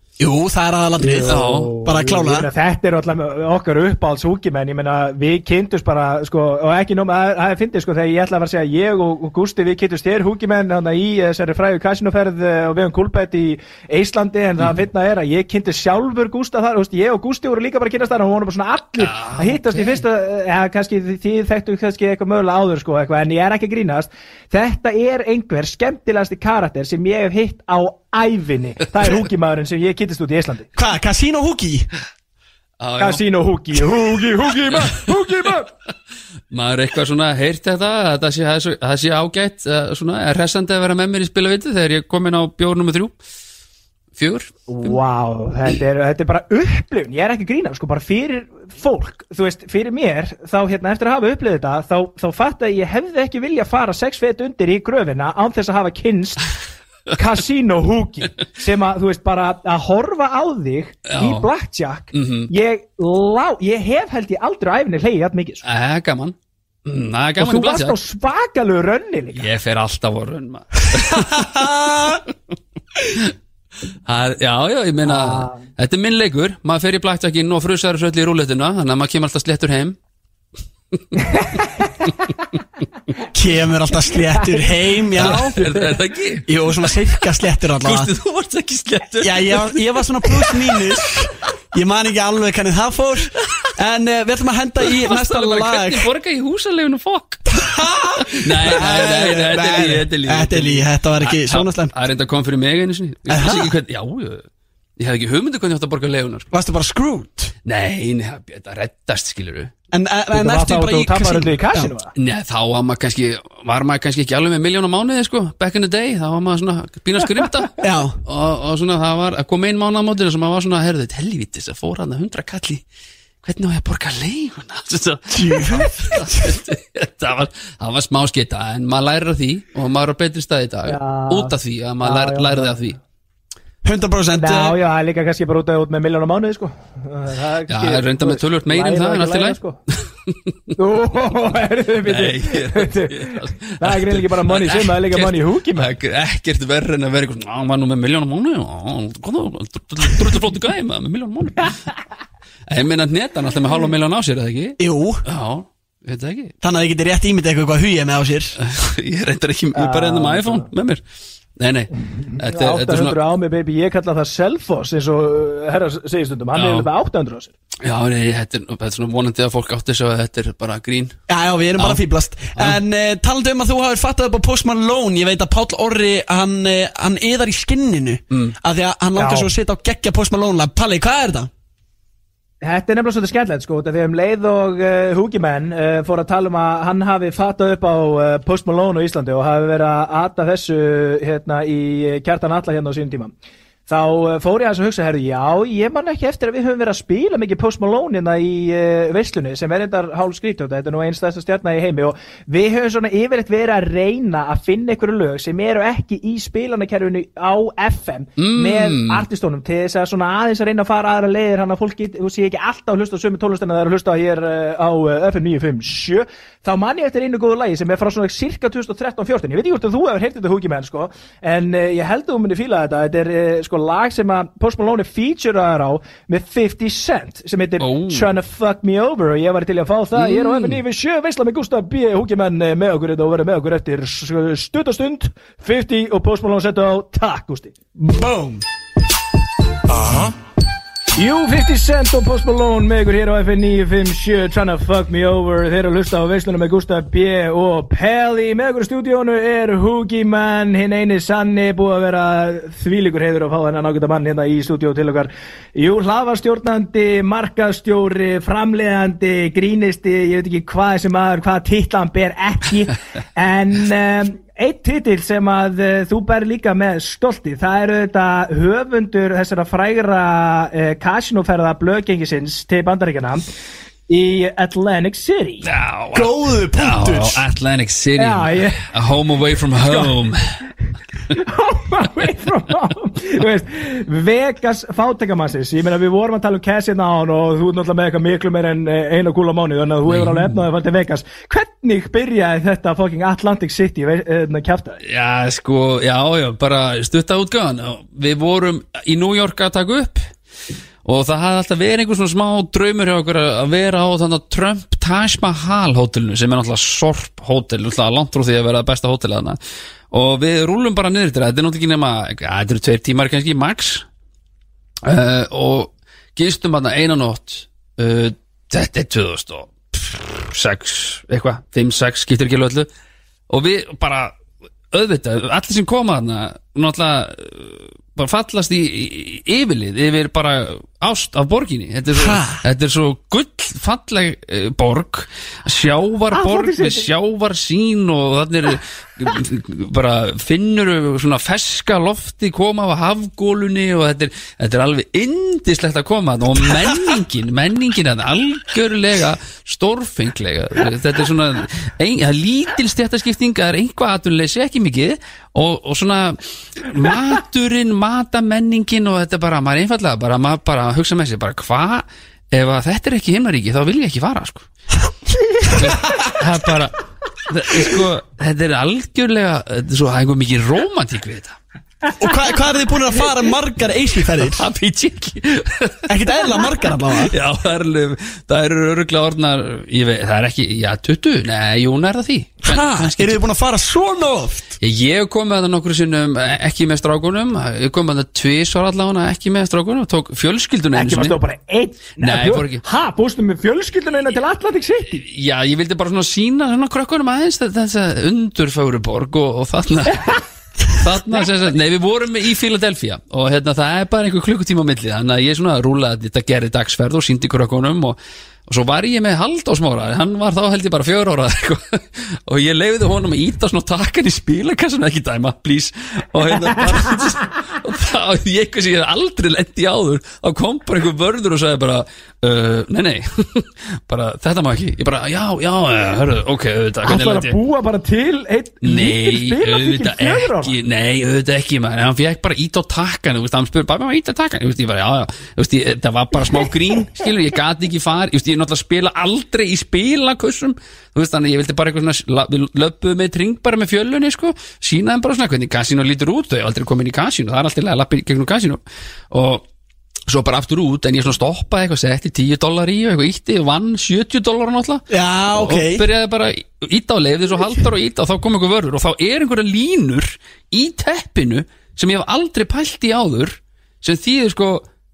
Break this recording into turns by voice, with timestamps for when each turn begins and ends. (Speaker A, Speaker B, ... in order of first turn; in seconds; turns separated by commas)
Speaker A: 0.2-2.5, Speaker B: 1.0-30.7, Speaker C: 1.2-1.7, Speaker C: 19.0-20.0, Speaker A: 30.8-31.9, Speaker C: 32.8-33.2, Speaker B: 33.0-35.7, Speaker C: 34.8-35.0, Speaker C: 36.5-43.1, Speaker C: 44.1-45.0, Speaker B: 44.7-56.5, Speaker B: 57.1-65.6, Speaker C: 61.1-61.5, Speaker C: 62.1-62.5, Speaker C: 65.6-68.0, Speaker B: 67.4-69.4, Speaker C: 69.3-72.3, Speaker A: 71.2-72.2, Speaker C: 73.1-73.3, Speaker C: 74.0-80.0, Speaker B: 75.0-75.6, Speaker A: 83.3-85.5, Speaker B: 85.1-85.8, Speaker C: 85.1-87.0, Speaker A: 86.5-88.1, Speaker C: 87.8-91.2, Speaker A: 89.2-96.1, Speaker C: 93.4-93.7, Speaker C: 94.9-97.7, Speaker A: 97.5-101.9, Speaker C: 98.3-104.4, Speaker A: 103.3-103.7, Speaker C: 105.0-106.5, Speaker A: 106.5-107.5, Speaker C: 107.6-109.7, Speaker A: 109.9-111.9, Speaker B: 110.3-112.1, Speaker C: 112.2-122.8, Speaker A: 117.8-118.2, Speaker C: 123.4-133.0, Speaker A: 125.3-126.5, Speaker B: 130.9-132.8, Speaker A: 133.8-134.8, Speaker B: 134.3-139.8, Speaker C: 137.7-140.3, Speaker B: 140.8-145.9, Speaker C: 142.1-151.8, Speaker C: 152.7-156.5, Speaker A: 154.8-155.2, Speaker A: 156.6-158.6, Speaker C: 158.6-161.0, Speaker B: 159.7-160.7, Speaker C: 161.6-163.2, Speaker B: 162.2-167.5, Speaker C: 166.5-166.9, Speaker C: 167.8-171.1, Speaker A: 171.3-181.5, Speaker C: 172.5-172.8, Speaker B: 179.2-179.5, Speaker B: 182.6-193.3, Speaker B: 193.9-237.8, Speaker C: 208.4-209.2, Speaker C: 227.8-228.3, Speaker C: 230.1-230.8, Speaker A: 238.0-238.6, Speaker A: 240.0-240.3, Speaker B: 241.1-273.5, Speaker B: 274.1-275.6, Speaker C: 275.6-280.6, Speaker A: 276.1-277.4, Speaker B: 278.2-278.9, Speaker B: 279.8-280.1, Speaker B: 281.3-295.0, Speaker C: 290.1-290.6, Speaker C: 295.0-300.2, Speaker C: 301.0-309.6, Speaker C: 310.1-314.1, Speaker C: 315.0-322.9, Speaker C: 323.5-324.3, Speaker C: 324.9-364.6, Speaker A: 332.1-332.6, Speaker B: 336.3-337.1, Speaker A: 365.6-366.3, Speaker C: 365.7-366.9, Speaker C: 367.5-371.6, Speaker A: 372.2-374.6, Speaker C: 374.4-376.1, Speaker A: 376.1-377.3, Speaker C: 377.2-383.4, Speaker A: 382.6-384.8, Speaker C: 384.8-391.3, Speaker B: 390.9-395.2, Speaker C: 392.2-392.8, Speaker C: 395.2-427.6, Speaker B: 427.0-430.8, Speaker C: 428.8-448.8, Speaker C: 449.3-449.6, Speaker C: 450.3-464.8, Speaker A: 455.1-456.0